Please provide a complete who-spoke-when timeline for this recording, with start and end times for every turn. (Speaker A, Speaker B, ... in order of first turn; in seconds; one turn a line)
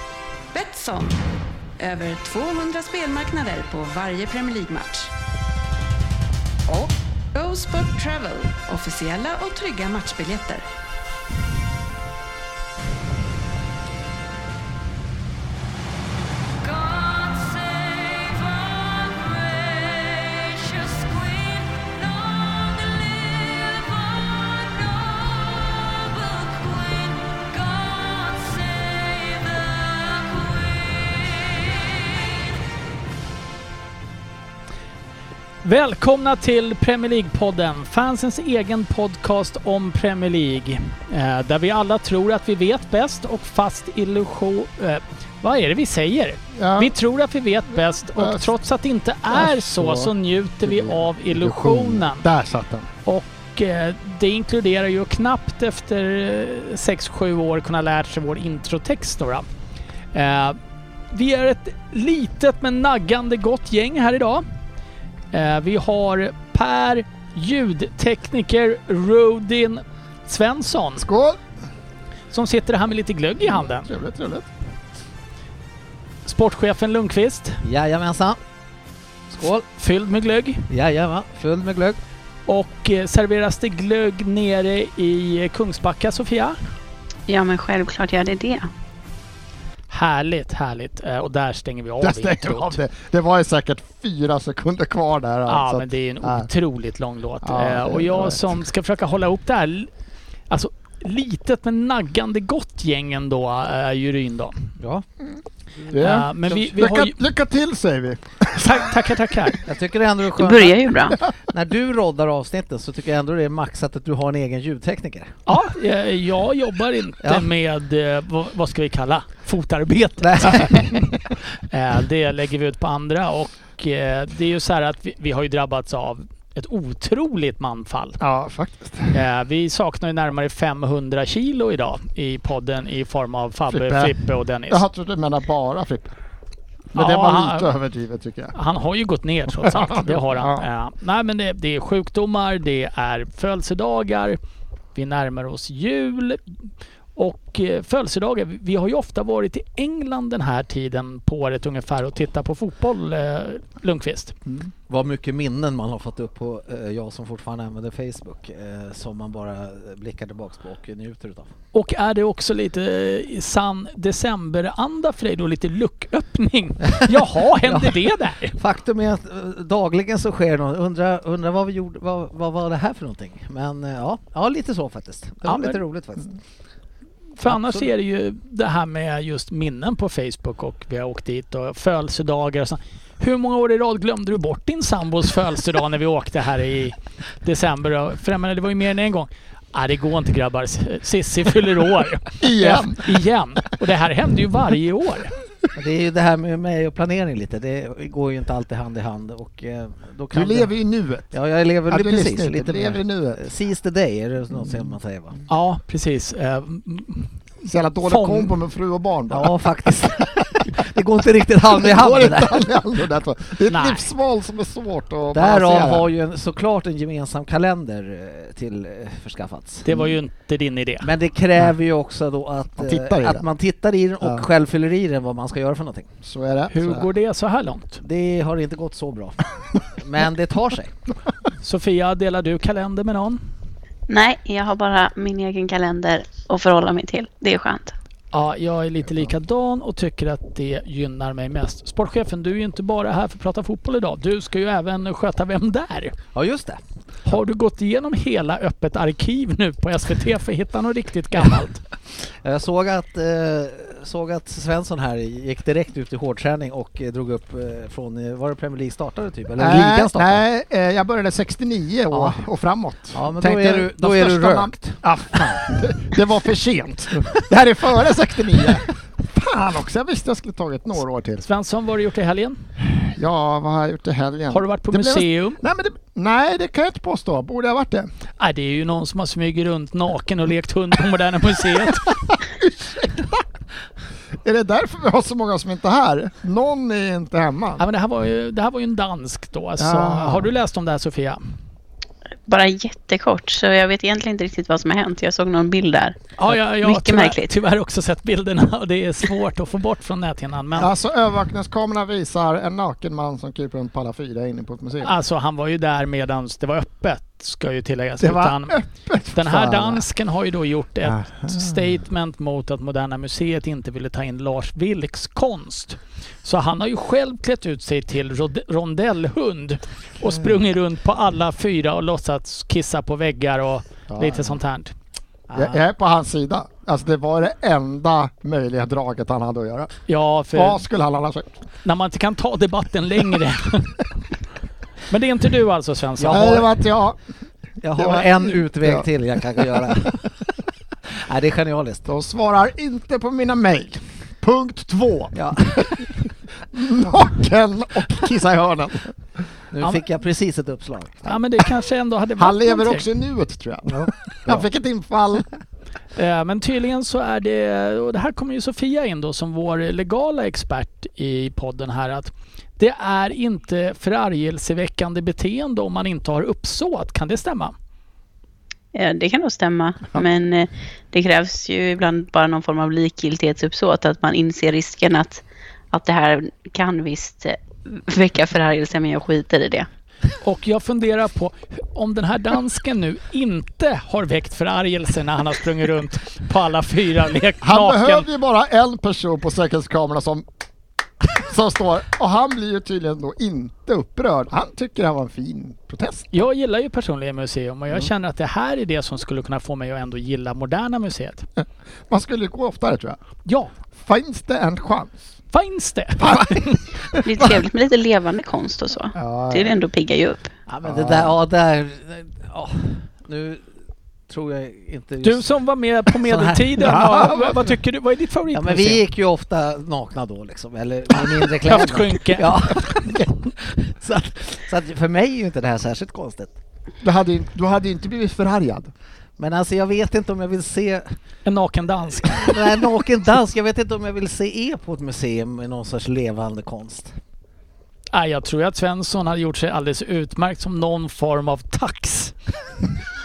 Speaker A: 0.5-1.2
Speaker A: 1.8-5.1
Speaker A: 6.7-10.7
Speaker A: 16.7-17.6
Speaker B: 35.6-52.3
Speaker C: 46.5-46.9
Speaker C: 48.1-48.5
Speaker C: 49.3-52.9
Speaker B: 53.0-59.5
Speaker B: 60.1-60.6
Speaker B: 61.1-64.5
Speaker B: 65.3-71.1
Speaker C: 71.0-71.4
Speaker B: 72.3-73.9
Speaker C: 73.4-74.5
Speaker B: 76.3-77.6
Speaker D: 77.6-78.4
Speaker D: 79.3-79.7
Speaker B: 79.8-80.7
Speaker D: 80.7-82.0
Speaker B: 82.5-86.6
Speaker E: 87.3-88.7
Speaker B: 89.9-92.8
Speaker C: 92.0-96.5
Speaker B: 95.5-99.9
Speaker C: 97.4-98.6
Speaker B: 100.5-104.7
Speaker D: 104.8-105.0
Speaker C: 105.9-108.9
Speaker B: 105.9-107.2
Speaker B: 108.5-109.6
Speaker D: 109.7-115.4
Speaker E: 110.4-111.2
Speaker B: 115.5-128.2
Speaker D: 117.2-117.5
Speaker D: 120.2-120.9
Speaker C: 128.2-129.2
Speaker B: 129.1-134.8
Speaker C: 133.7-136.2
Speaker C: 136.9-138.6
Speaker B: 136.9-137.7
Speaker B: 138.5-144.4
Speaker C: 139.6-140.7
Speaker B: 144.9-146.4
Speaker B: 147.2-154.3
Speaker D: 154.9-161.5
Speaker B: 161.7-168.6
Speaker D: 166.8-176.3
Speaker B: 175.4-175.8
Speaker B: 177.4-195.3
Speaker D: 177.4-177.9
Speaker C: 192.4-193.1
Speaker D: 195.8-200.7
Speaker C: 200.3-201.3
Speaker D: 201.3-205.4
Speaker C: 201.9-203.4
Speaker B: 205.5-207.3
Speaker C: 207.6-209.5
Speaker B: 208.0-208.6
Speaker D: 209.3-212.7
Speaker C: 211.7-216.1
Speaker B: 213.7-214.1
Speaker D: 215.3-219.9
Speaker B: 219.8-221.1
Speaker D: 221.0-226.1
Speaker C: 222.8-223.4
Speaker C: 224.2-224.5
Speaker C: 226.2-227.1
Speaker B: 226.7-228.0
Speaker D: 228.0-230.9
Speaker B: 231.6-233.4
Speaker E: 234.1-237.9
Speaker B: 238.3-246.2
Speaker D: 246.3-246.8
Speaker B: 247.3-251.8
Speaker D: 252.4-260.4
Speaker C: 259.6-271.5
Speaker D: 262.1-262.4
Speaker D: 263.1-265.4
Speaker B: 271.4-272.6
Speaker C: 272.8-278.1
Speaker B: 274.5-275.6
Speaker B: 278.4-282.4
Speaker C: 282.5-283.4
Speaker C: 284.4-287.9
Speaker B: 287.8-291.4
Speaker C: 289.8-290.5
Speaker E: 292.5-296.2
Speaker B: 296.4-300.9
Speaker E: 296.8-297.5
Speaker C: 300.8-305.1
Speaker B: 305.0-308.8
Speaker C: 308.2-310.1
Speaker B: 309.3-324.9
Speaker C: 311.0-312.0
Speaker C: 324.1-324.6
Speaker D: 325.5-325.8
Speaker C: 325.6-329.9
Speaker B: 330.1-330.8
Speaker C: 330.5-331.5
Speaker B: 331.8-334.1
Speaker B: 335.1-336.7
Speaker D: 336.2-336.7
Speaker C: 336.3-337.2
Speaker D: 337.8-340.3
Speaker C: 337.9-340.1
Speaker D: 341.1-342.1
Speaker C: 342.1-346.2
Speaker D: 345.4-346.1
Speaker C: 346.7-349.2
Speaker D: 349.7-351.3
Speaker B: 351.2-353.1
Speaker C: 352.4-355.5
Speaker D: 353.9-354.6
Speaker B: 356.2-367.7
Speaker E: 368.9-379.9
Speaker B: 380.4-388.3
Speaker C: 387.6-390.5
Speaker C: 391.2-396.3
Speaker B: 396.3-401.5
Speaker C: 401.6-403.2
Speaker B: 403.5-403.7
Speaker C: 403.9-405.4
Speaker B: 405.5-406.9
Speaker C: 406.2-407.6
Speaker E: 407.2-410.5
Speaker C: 409.1-409.8
Speaker D: 410.7-413.6
Speaker C: 410.8-411.4
Speaker D: 414.3-415.4
Speaker B: 415.2-419.0
Speaker D: 416.1-417.1
Speaker C: 416.8-417.6
Speaker D: 418.5-426.5
Speaker B: 421.6-422.5
Speaker C: 427.0-428.9
Speaker D: 429.4-431.2
Speaker B: 431.4-432.6
Speaker D: 432.3-437.1
Speaker B: 438.1-442.4